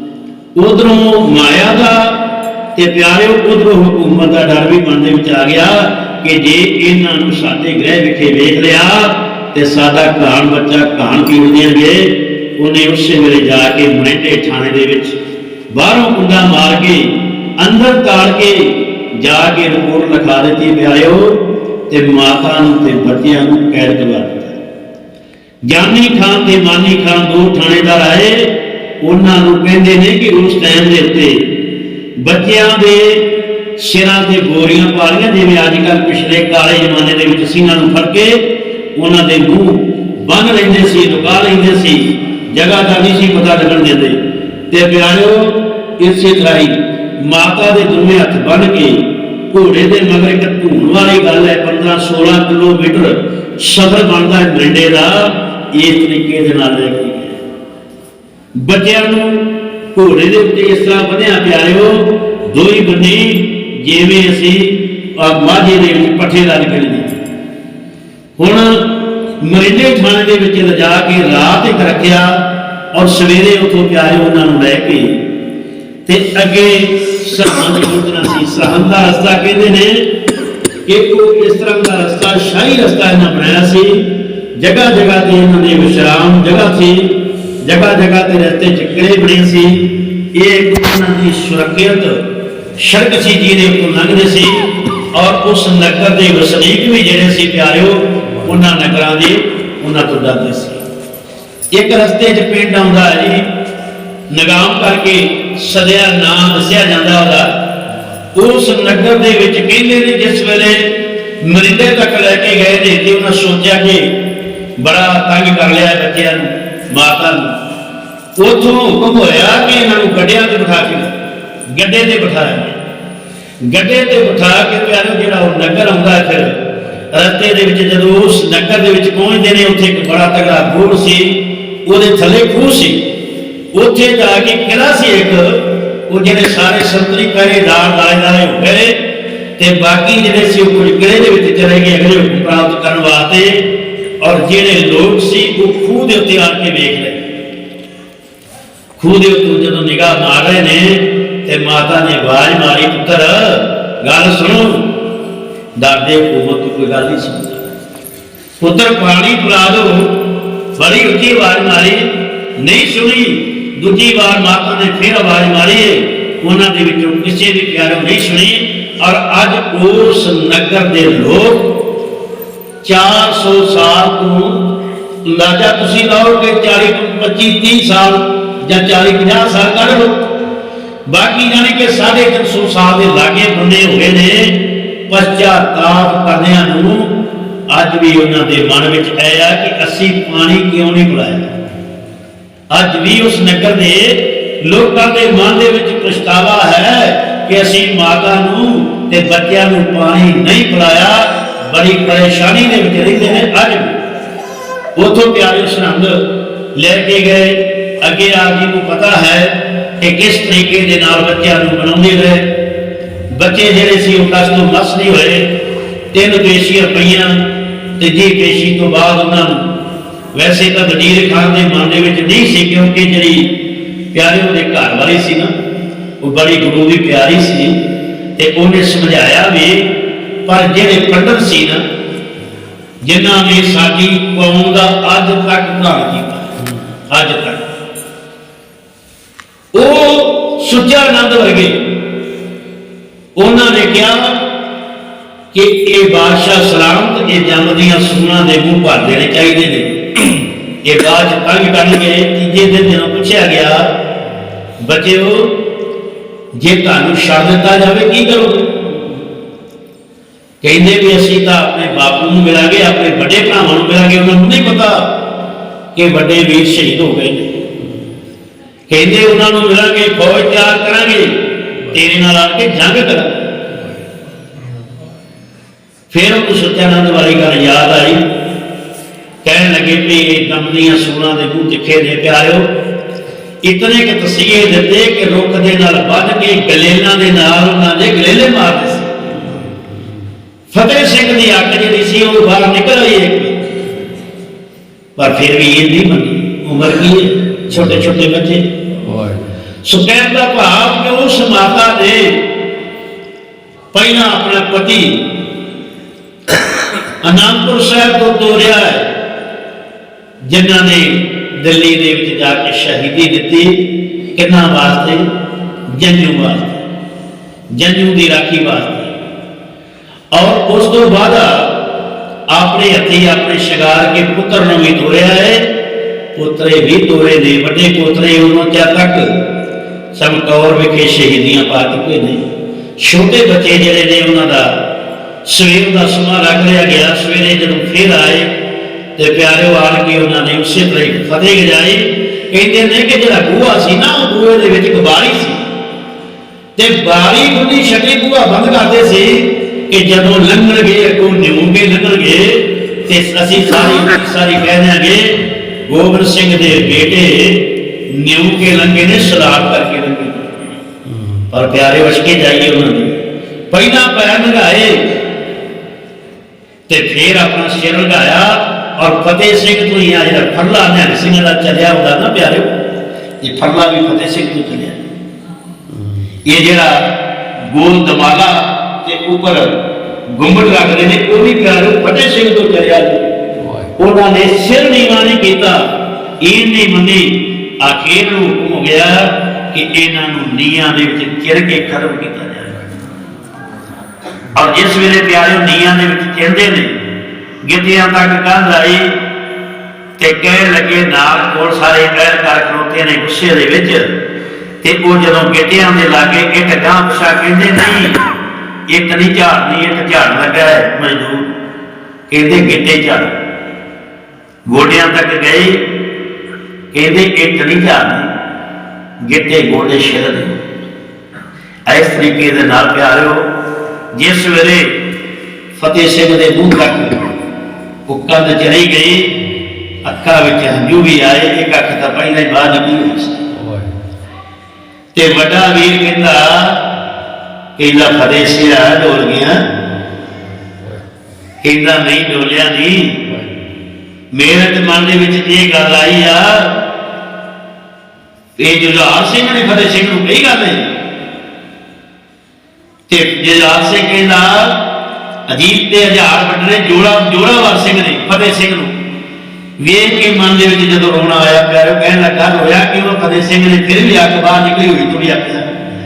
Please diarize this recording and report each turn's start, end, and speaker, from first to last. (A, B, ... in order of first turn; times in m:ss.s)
0:00.6-0:02.2 A
0:02.8-0:15.2 A
0:15.7-0:24.6 A
0:25.7-0:31.5 A
0:32.2-0:44.2 A
0:44.7-0:57.4 A
0:58.6-1:07.2 A
1:08.4-1:15.2 A
1:16.1-1:20.1 A
1:20.9-1:32.2 A
1:32.8-1:40.8 A
1:38.3-1:38.5 B
1:41.7-1:43.5 A
1:44.3-1:47.6 A
1:48.3-1:54.1 A
1:54.8-1:57.6 A
1:58.4-2:01.2 A
2:01.7-2:02.8 A
2:03.7-2:13.1 A
2:13.7-2:19.0 A
2:19.6-2:27.2 A
2:29.0-2:34.9 A
2:35.8-2:37.7 A
2:38.6-2:40.2 A
2:40.8-2:51.8 A
2:52.8-2:54.7 A
2:55.2-3:00.4 A
3:01.1-3:07.2 A
3:07.7-3:11.5 A
3:12.7-3:24.0 A
3:25.0-3:26.2 A
3:26.8-3:32.6 A
3:33.3-3:35.6 A
3:36.1-3:39.7 A
3:40.3-3:43.6 A
3:44.1-3:45.5 A
3:46.2-3:47.8 A
3:48.4-3:51.8 A
3:53.0-3:56.6 A
3:57.1-3:57.7 A
3:59.7-4:01.9 A
4:03.4-4:04.4 A
4:05.5-4:13.9 A
4:14.8-4:15.6 A
4:16.6-4:18.8 A
4:20.6-4:25.1 A
4:26.0-4:27.6 A
4:27.8-4:28.1 B
4:28.9-4:33.5 A
4:36.1-4:38.3 A
4:39.4-4:42.7 A
4:43.6-4:49.4 A
4:49.4-4:50.3 B
4:50.7-4:53.6 A
4:55.2-4:58.7 A
4:57.7-4:58.1 B
4:59.0-4:59.6 B
4:59.8-5:02.4 A
5:03.9-5:05.2 A
5:07.2-5:09.1 A
5:10.5-5:15.2 A
5:15.9-5:16.8 A
5:17.8-5:19.2 A
5:20.3-5:21.8 A
5:22.5-5:25.7 A
5:26.4-5:29.4 A
5:30.1-5:32.4 A
5:33.0-5:34.8 A
5:35.4-5:38.6 A
5:39.2-5:45.6 A
5:46.8-6:00.5 A
6:01.1-6:01.5 B
6:01.5-6:03.2 A
6:03.7-6:05.2 A
6:06.9-6:12.7 A
6:13.4-6:15.1 A
6:15.9-6:16.4 B
6:16.4-6:17.1 A
6:17.7-6:19.8 A
6:20.3-6:23.3 A
6:23.6-6:24.0 B
6:24.0-6:25.9 A
6:26.4-6:32.7 A
6:34.6-6:37.0 A
6:37.6-6:39.2 A
6:40.2-6:44.1 A
6:44.8-6:48.2 A
6:48.9-6:51.5 A
6:52.3-6:53.4 A
6:54.7-6:55.9 A
6:56.9-6:58.3 A
6:59.2-7:00.6 A
7:01.9-7:03.5 A
7:04.1-7:05.0 A
7:05.8-7:07.3 A
7:08.1-7:09.4 A
7:10.0-7:13.4 A
7:13.5-7:14.0 B
7:15.1-7:16.9 A
7:17.8-7:19.7 A
7:20.3-7:21.1 B
7:21.6-7:23.2 A
7:23.2-7:23.7 B
7:24.3-7:26.7 A
7:28.6-7:30.9 A
7:33.1-7:34.8 A
7:35.5-7:38.9 A
7:39.8-7:45.8 A